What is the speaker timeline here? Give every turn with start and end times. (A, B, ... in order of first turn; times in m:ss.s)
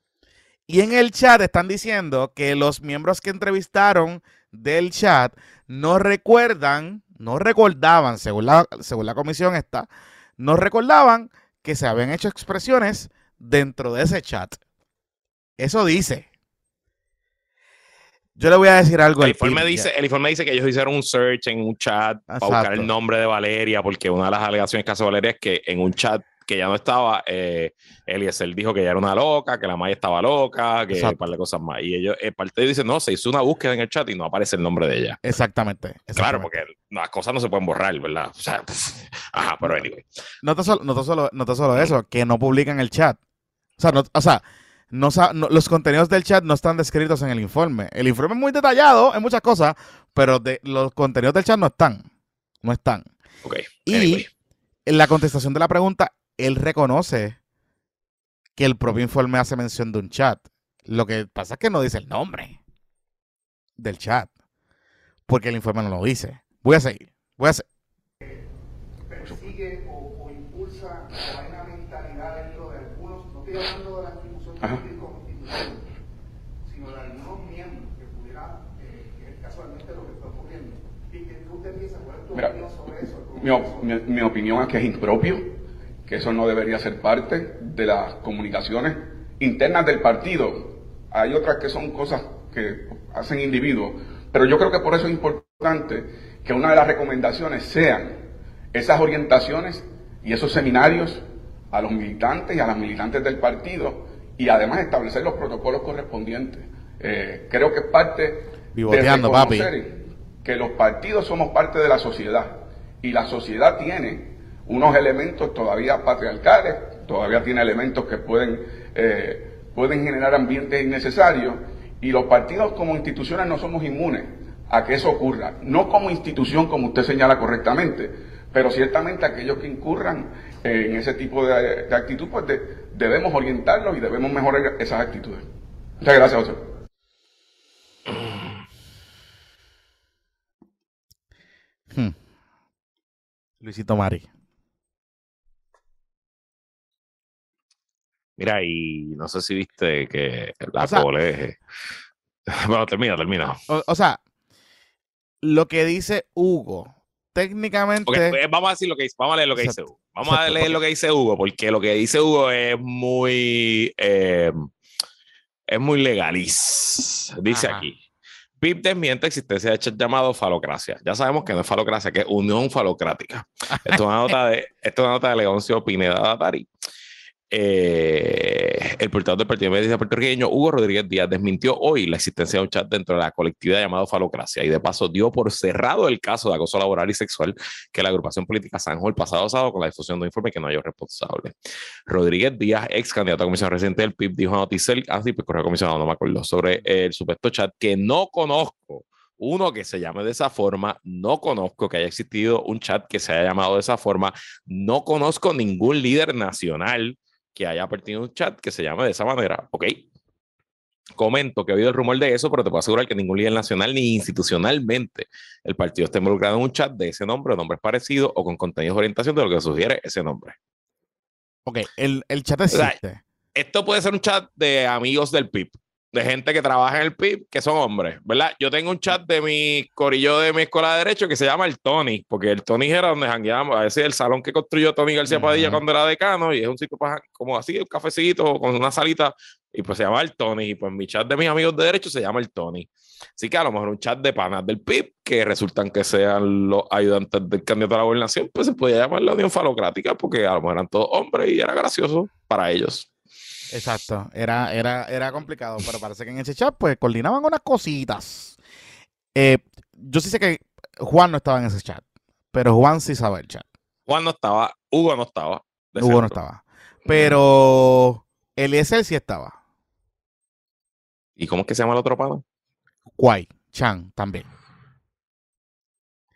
0:00.7-0:14.6 A
0:15.6-0:16.3 A
0:18.4-0:19.9 A
0:19.2-0:35.2 B
0:22.3-0:22.9 A
0:30.9-0:31.2 A
0:35.2-0:36.6 A
0:36.2-0:40.0 B
0:40.4-0:43.2 A
0:43.8-0:52.0 A
0:52.6-0:53.1 A
0:53.4-0:54.3 B
0:53.9-0:54.2 A
0:54.9-0:57.4 A
0:58.6-1:02.6 A
1:03.8-1:04.3 A
1:05.3-1:07.6 A
1:09.1-1:15.8 C
1:16.7-1:23.9 C
1:23.4-1:25.6 D
1:26.1-1:38.2 D
1:38.7-2:15.4 D
1:48.8-1:49.7 A
2:16.0-2:16.6 D
2:23.6-2:24.3 A
2:28.4-2:31.6 B
2:30.8-2:31.0 A
2:32.5-2:33.6 B
2:33.7-2:34.2 A
2:35.4-2:38.4 A
2:38.1-2:44.7 B
2:39.6-2:40.8 A
2:45.7-2:47.9 B
2:47.5-2:47.9 A
2:48.6-2:56.7 B
2:57.5-3:11.5 B
3:12.1-3:30.0 B
3:31.2-3:40.6 B
3:41.6-3:43.2 A
3:42.7-3:43.0 B
3:43.5-4:13.1 B
3:55.3-3:55.8 A
4:13.7-4:18.6 A
4:19.3-4:23.6 A
4:24.1-4:26.4 B
4:26.0-4:29.6 A
4:27.1-4:27.4 B
4:31.4-4:32.4 B
4:33.2-4:34.5 A